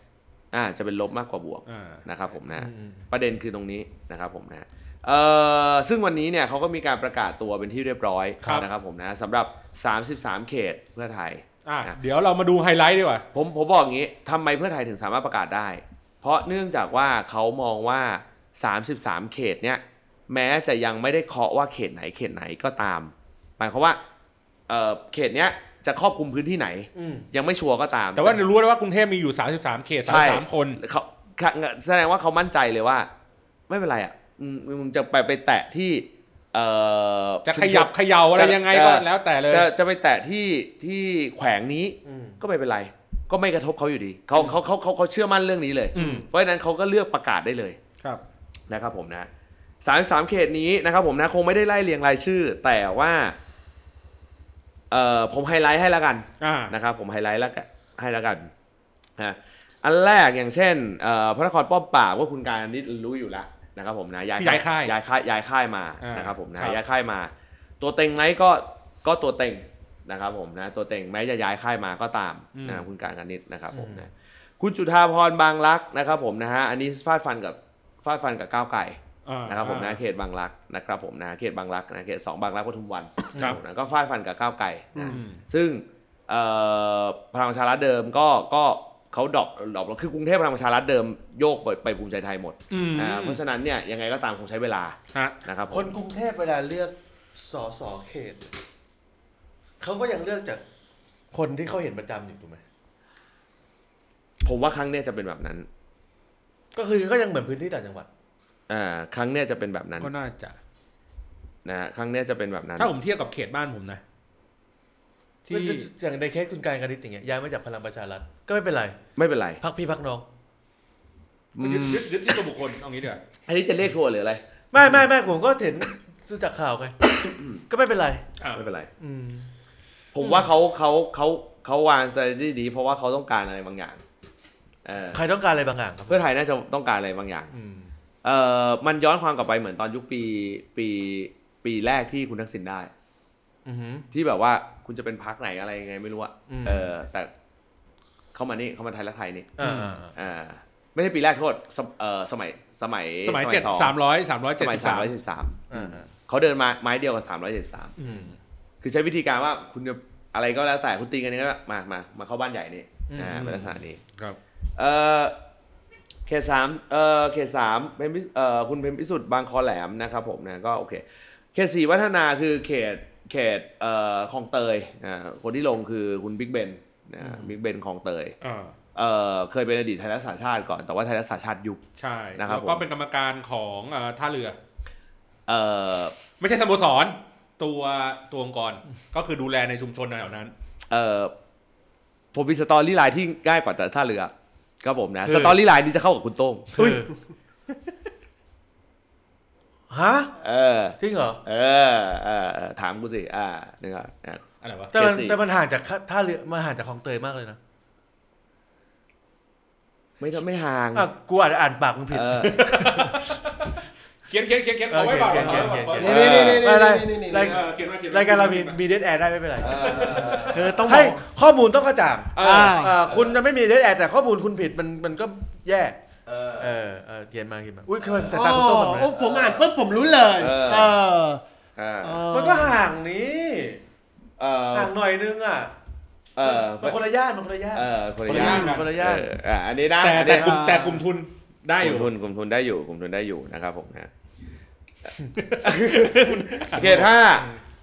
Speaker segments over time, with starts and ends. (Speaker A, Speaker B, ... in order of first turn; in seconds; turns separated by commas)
Speaker A: 0.5-12.0, Speaker B: 1.7-2.0, Speaker C: 2.5-3.0, Speaker B: 11.7-13.2, Speaker A: 13.3-24.0, Speaker A: 24.7-28.4, Speaker C: 26.9-27.3, Speaker B: 28.1-30.8, Speaker A: 30.1-33.1, Speaker A: 33.7-47.8, Speaker B: 37.5-39.7, Speaker C: 42.0-42.4, Speaker B: 46.0-46.3, Speaker A: 48.7-49.3, Speaker A: 49.8-53.4, Speaker A: 54.9-58.5, Speaker B: 56.4-56.7, Speaker A: 59.2-96.0, Speaker B: 64.4-65.0, Speaker B: 66.0-66.8, Speaker B: 72.5-72.9, Speaker C: 73.7-74.1, Speaker B: 79.3-80.0, Speaker B: 85.1-85.4, Speaker B: 92.7-93.4, Speaker C: 95.7-98.5, Speaker C: 99.8-100.6, Speaker C: 101.3-102.6, Speaker A: 104.4-105.7, Speaker C: 106.8-108.1, Speaker A: 108.7-110.1, Speaker B: 110.0-110.6, Speaker A: 111.7-112.9, Speaker B: 112.8-114.0, Speaker B: 115.5-115.9, Speaker C: 115.5-119.0, Speaker A: 119.2-119.6, Speaker C: 119.6-120.2, Speaker A: 121.5-122.3, Speaker B: 121.6-123.2, Speaker A: 123.5-125.0, Speaker C: 124.7-127.0, Speaker A: 127.2-127.6, Speaker C: 127.7-128.2, Speaker B: 128.4-128.7, Speaker A: 128.6-128.9, Speaker C: 129.0-129.5, Speaker A: 130.1-134.0, Speaker A: 134.8-135.2, Speaker C: 135.1-136.2, Speaker A: 136.1-137.5, Speaker C: 137.5-137.9, Speaker A: 138.2-142.9, Speaker C: 143.7-144.1, Speaker A: 144.1-147.3, Speaker C: 146.5-146.9, Speaker A: 148.3-149.6, Speaker C: 149.6-150.1, Speaker B: 149.6-150.0, Speaker A: 150.2-154.0, Speaker B: 153.2-155.1, Speaker A: 154.6-157.9, Speaker C: 155.7-156.1, Speaker C: 158.0-158.3, Speaker B: 158.0-158.3, Speaker A: 158.8-164.0, Speaker C: 163.1-163.5, Speaker B: 163.3-164.4, Speaker A: 164.8-165.3, Speaker A: 166.3-178.4, Speaker B: 178.4-178.8, Speaker A: 178.9-181.8, Speaker B: 182.0-184.6, Speaker A: 182.4-182.9, Speaker A: 185.5-186.2, Speaker B: 186.4-190.5, Speaker A: 190.9-191.3, Speaker A: 192.3-197.0, Speaker C: 195.2-195.6, Speaker C: 196.8-197.1, Speaker C: 199.9-200.3, Speaker A: 200.4-205.4, Speaker C: 201.0-201.4, Speaker B: 204.6-204.9, Speaker C: 204.9-207.6, Speaker A: 210.2-211.1, Speaker C: 210.9-213.5, Speaker A: 212.1-212.8, Speaker B: 212.6-213.7, Speaker B: 214.3-216.6, Speaker C: 214.9-226.0, Speaker D: 215.4-217.6, Speaker A: 216.0-216.6, Speaker B: 217.3-218.8, Speaker A: 219.6-220.8, Speaker B: 219.8-220.6, Speaker D: 220.5-221.2, Speaker B: 222.3-222.8, Speaker D: 222.4-223.0, Speaker A: 223.1-223.4, Speaker A: 226.3-226.7, Speaker C: 226.6-229.1, Speaker A: 228.0-228.5, Speaker D: 228.3-231.4, Speaker A: 229.1-229.7, Speaker A: 230.4-231.0, Speaker A: 231.8-232.2, Speaker D: 232.0-232.8, Speaker C: 232.3-233.8, Speaker A: 234.4-234.9, Speaker C: 234.7-235.7, Speaker A: 236.4-237.0, Speaker C: 236.4-239.3, Speaker A: 237.7-240.6, Speaker B: 238.3-238.9, Speaker B: 240.0-242.1, Speaker D: 240.2-241.1, Speaker A: 241.8-244.1, Speaker A: 245.6-247.5, Speaker B: 245.7-247.0, Speaker C: 246.5-247.6